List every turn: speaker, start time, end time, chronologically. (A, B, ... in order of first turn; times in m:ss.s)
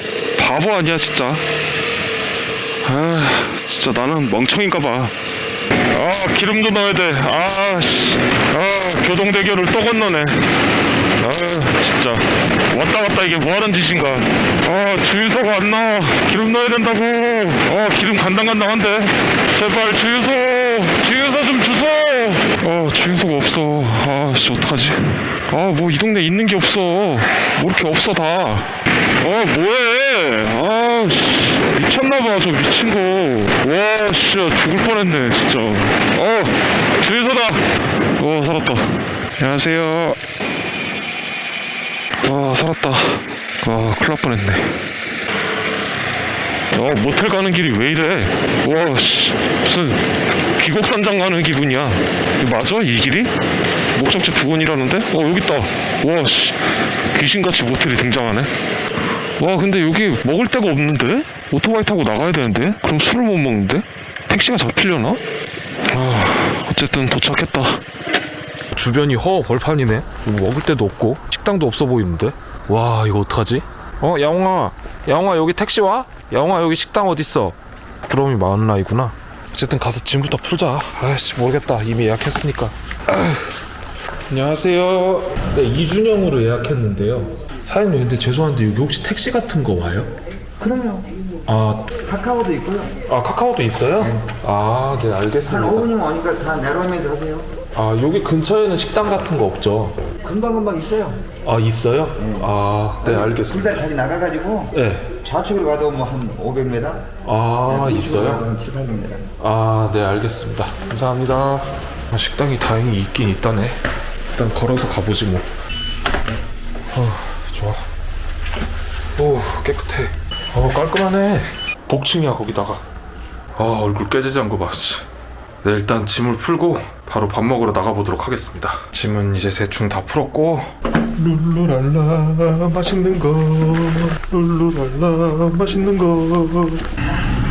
0:00.4-0:01.4 A
0:02.8-0:05.1 A
0:05.9-0:10.5 A
0:11.2-0:40.2 A
0:42.2-0:44.8 A
0:46.7-0:53.3 A
0:53.9-0:58.5 A
0:59.4-1:05.2 A
1:05.9-1:07.8 A
1:08.7-1:23.6 B
1:24.3-1:30.1 B
1:30.6-1:31.1 C
1:31.5-1:31.9 B
1:32.0-1:33.0 C
1:33.1-1:35.9 B
1:35.4-1:37.5 C
1:37.7-1:40.0 B
1:40.2-1:41.2 C
1:41.4-1:43.9 B
1:42.2-1:42.5 C
1:43.0-1:47.1 C
1:44.7-1:45.1 B
1:47.2-1:48.4 B
1:47.7-1:49.3 C
1:49.4-1:53.8 B
1:54.3-1:55.5 B
1:56.9-1:57.8 B
1:59.2-2:02.8 B
2:03.6-2:05.1 B
2:05.6-2:16.9 B